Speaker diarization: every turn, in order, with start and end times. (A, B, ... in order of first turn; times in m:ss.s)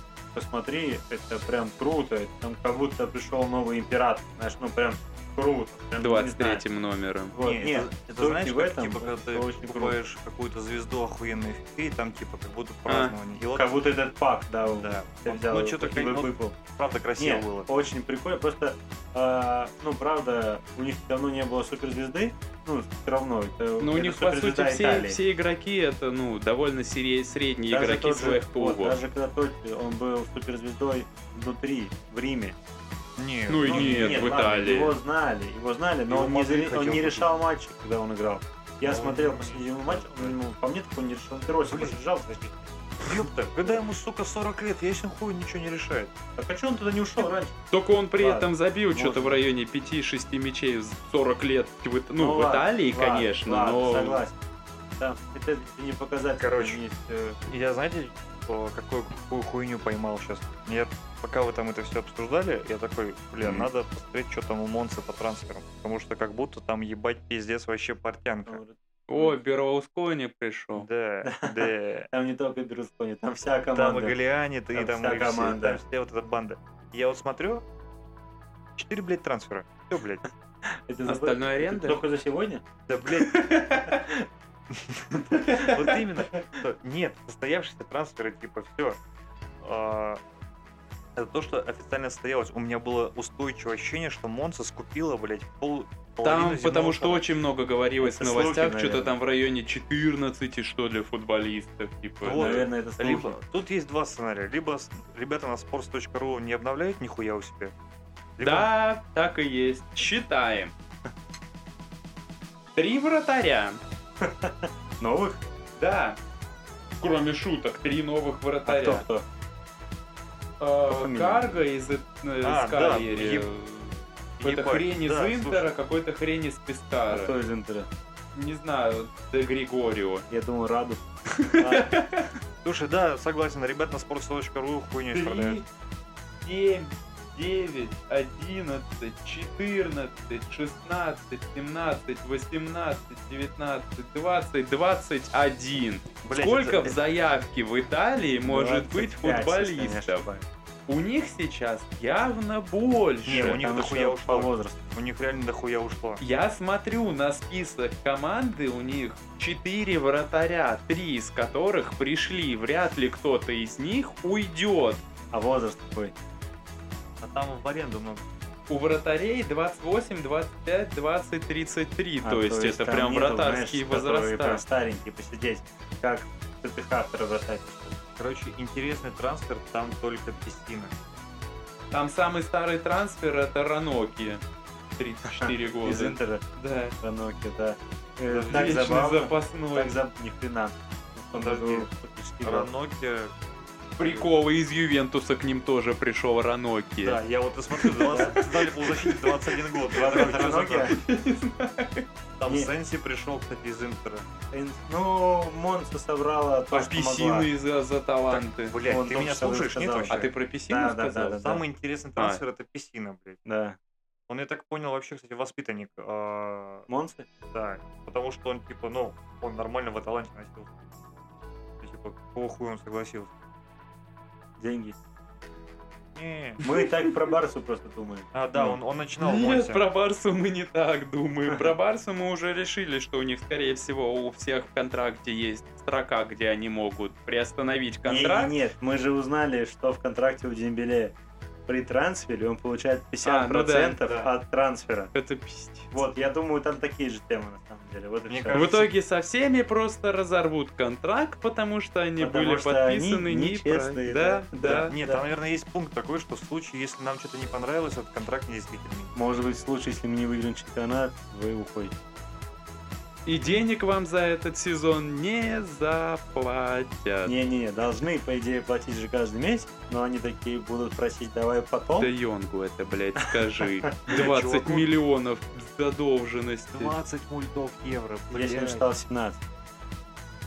0:00.3-0:06.6 A
0:06.0-0:07.4 B
0:07.3-0:10.0 A
0:07.4-0:13.8 C
0:12.9-0:13.1 B
0:13.5-0:16.5 A
0:14.6-0:17.7 C
0:17.2-0:25.2 A
0:23.8-0:29.0 B
0:27.7-0:32.6 A
0:33.2-0:34.5 C
0:33.5-0:35.0 B
0:33.6-0:42.7 A
0:36.1-0:37.3 C
0:38.8-0:40.4 C
0:41.7-0:42.0 C
0:43.0-0:46.1 C
0:46.4-0:47.6 A
0:47.7-0:54.2 B
0:48.2-0:49.4 A
0:52.2-0:54.4 A
0:55.0-0:57.4 A
0:56.4-0:56.8 C
0:57.4-1:08.6 C
1:08.4-1:09.4 A
1:09.1-1:10.9 B
1:10.7-1:12.1 C
1:11.2-1:14.2 A
1:13.7-1:17.6 C
1:14.7-1:15.8 A
1:18.8-1:20.2 C
1:20.9-1:22.6 A
1:21.0-1:22.0 B
1:22.9-1:23.4 C
1:23.2-1:24.0 B
1:23.8-1:24.2 A
1:24.7-1:29.0 C
1:25.3-1:25.7 A
1:29.6-1:30.2 C
1:31.2-1:37.2 C
1:36.2-1:42.7 B
1:38.0-1:39.1 A
1:42.2-1:47.7 C
1:42.3-1:43.4 A
1:48.4-1:48.7 C
1:48.4-1:50.7 B
1:52.8-1:53.8 B
1:54.2-1:55.4 A
1:55.8-1:56.2 B
1:57.0-1:59.0 B
1:58.6-1:59.2 A
2:00.6-2:07.3 B
2:00.9-2:01.6 A
2:02.4-2:03.5 C
2:04.4-2:05.7 C
2:07.1-2:07.9 A
2:08.3-2:10.2 B
2:10.3-2:11.0 A
2:11.4-2:12.2 B
2:11.6-2:11.9 A
2:12.6-2:15.6 C
2:15.1-2:15.7 B
2:16.4-2:30.2 B
2:26.2-2:27.0 C
2:28.4-2:30.4 A
2:30.9-2:33.6 B
2:33.2-2:36.2 C
2:33.3-2:34.8 A
2:36.2-2:45.0 B
2:45.3-2:46.1 A
2:47.2-2:48.2 C
2:48.7-2:54.6 B
2:52.2-2:58.0 A
2:58.2-3:01.2 C
3:01.9-3:04.4 B
3:05.0-3:07.0 B
3:05.3-3:06.4 A
3:07.0-3:12.7 A
3:08.3-3:09.0 C
3:08.5-3:09.9 B
3:11.3-3:11.9 C
3:12.4-3:13.3 C
3:14.0-3:17.2 B
3:14.0-3:14.3 C
3:17.0-3:21.0 C
3:17.8-3:20.3 B
3:18.1-3:18.4 A
3:19.9-3:21.0 A
3:20.9-3:22.0 B
3:22.4-3:24.3 C
3:24.5-3:27.5 A
3:26.7-3:28.8 B
3:28.3-3:30.3 C
3:28.8-3:31.6 A
3:30.1-3:31.4 B
3:31.4-3:33.4 C
3:33.4-3:33.8 A
3:34.3-3:36.9 C
3:36.9-3:37.3 A
3:37.5-3:40.7 C
3:41.8-3:43.3 C
3:44.6-3:45.0 A
3:46.1-3:46.6 C
3:46.6-3:48.8 A
3:48.3-3:49.8 C
3:49.2-3:58.5 B
3:51.5-3:51.7 A
3:58.0-4:01.1 A
4:01.7-4:05.1 A
4:03.2-4:04.0 B
4:05.1-4:05.9 B
4:05.9-4:08.6 A
4:08.3-4:08.9 C
4:08.5-4:14.9 B
4:12.2-4:15.2 A
4:14.7-4:19.1 C
4:19.1-4:21.9 A
4:23.2-4:27.3 B
4:27.2-4:32.1 A
4:32.0-4:36.9 B
4:33.6-4:33.9 A
4:34.1-4:34.9 C
4:36.7-4:38.9 C
4:38.3-4:39.4 A